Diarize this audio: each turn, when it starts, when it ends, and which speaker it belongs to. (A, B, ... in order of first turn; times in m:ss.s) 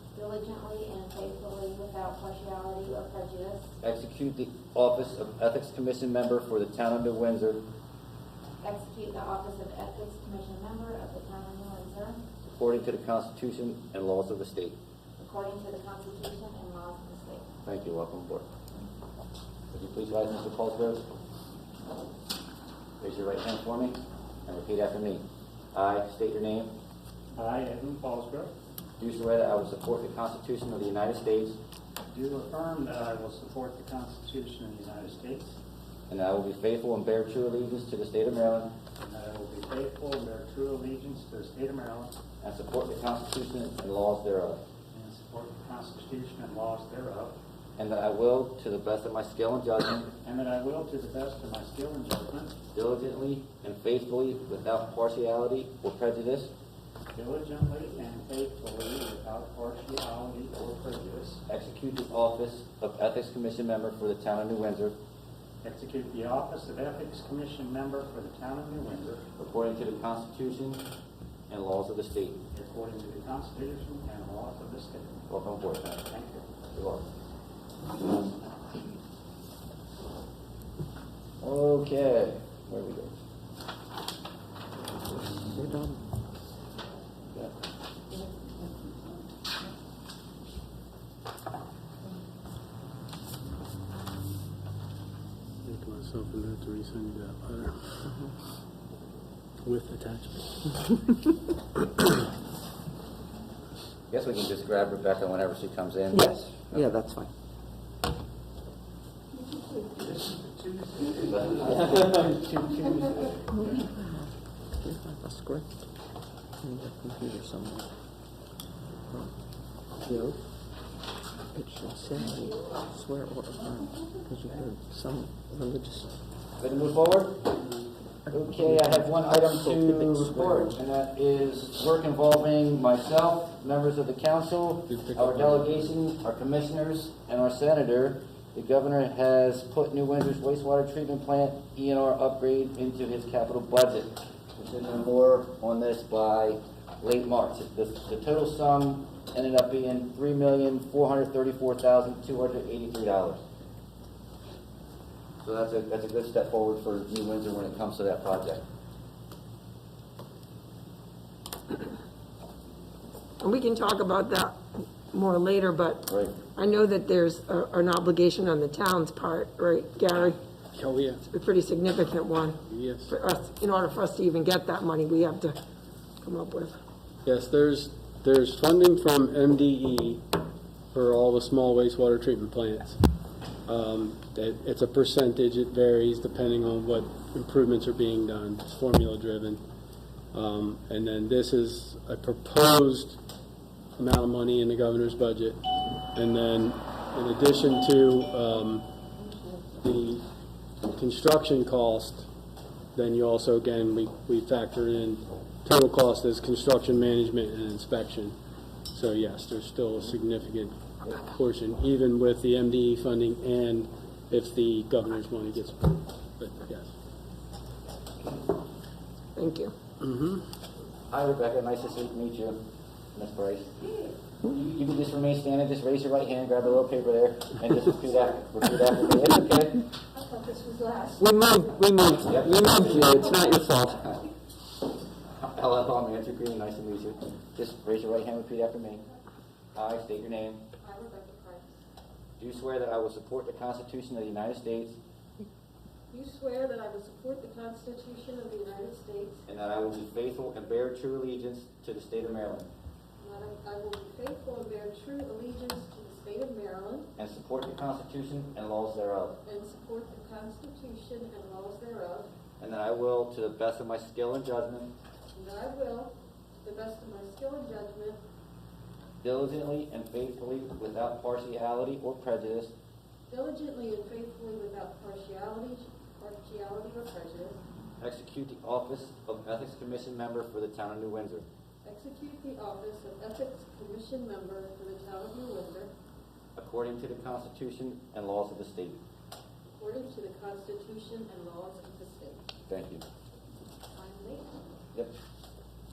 0:00.1-0:03.7 A
0:03.8-0:07.6 B
0:08.6-0:12.2 A
0:12.5-0:14.8 B
0:15.2-0:17.4 A
0:17.6-0:18.5 B
0:19.7-0:21.1 B
0:23.0-0:26.8 B
0:27.3-0:28.5 C
0:29.0-0:31.6 B
0:32.1-0:35.6 C
0:36.1-0:38.7 B
0:39.0-0:42.2 C
0:42.4-0:44.6 B
0:44.9-0:47.4 C
0:47.8-0:50.1 B
0:50.2-0:52.5 C
0:52.7-0:56.5 B
0:57.1-1:01.4 C
1:01.5-1:05.0 B
1:05.6-1:09.2 C
1:09.4-1:10.8 B
1:11.5-1:12.4 B
1:12.5-1:15.2 C
1:15.3-1:16.0 B
1:16.0-1:16.4 C
1:16.7-1:17.0 B
1:21.4-1:23.2 B
1:25.5-1:26.0 D
1:35.6-1:38.1 E
1:39.6-1:40.9 E
1:44.1-1:46.9 B
1:46.1-1:47.3 D
1:49.9-1:53.3 C
1:51.3-1:52.1 B
1:51.7-1:52.2 D
1:53.5-1:55.8 D
1:56.6-1:57.9 D
1:59.1-1:59.3 D
2:00.0-2:00.4 D
2:01.5-2:06.1 D
2:06.6-2:07.6 B
2:08.3-2:33.4 B
2:08.3-2:10.7 D
2:15.1-2:15.5 E
2:35.4-2:38.6 B
2:43.4-2:50.4 F
2:46.0-2:46.4 B
2:50.7-2:51.2 E
2:51.3-2:55.6 F
2:52.6-2:53.1 E
2:56.2-2:56.8 F
2:57.2-3:00.3 E
3:00.9-3:03.0 E
3:03.6-3:09.6 E
3:10.3-3:13.2 E
3:14.0-3:18.9 E
3:19.8-3:20.2 E
3:20.9-3:22.3 E
3:22.9-3:28.4 E
3:28.9-3:36.9 E
3:39.4-3:39.7 F
3:40.0-3:40.4 E
3:41.1-3:42.6 B
3:43.1-3:43.7 B
3:44.4-3:49.9 B
3:50.1-3:51.3 G
3:51.2-3:54.0 D
3:52.2-3:54.2 B
3:55.3-3:59.0 B
3:59.7-4:00.6 B
4:00.8-4:01.8 G
4:02.4-4:05.0 B
4:06.1-4:09.4 G
4:09.5-4:12.7 B
4:13.2-4:17.1 G
4:17.2-4:19.4 B
4:19.4-4:22.3 G
4:22.6-4:24.9 B
4:25.3-4:28.2 G
4:29.2-4:32.7 B
4:33.3-4:37.6 G
4:38.0-4:41.4 B
4:41.8-4:45.9 G
4:46.6-4:49.0 B
4:49.8-4:52.4 G
4:52.7-4:53.0 B
4:54.0-4:54.4 G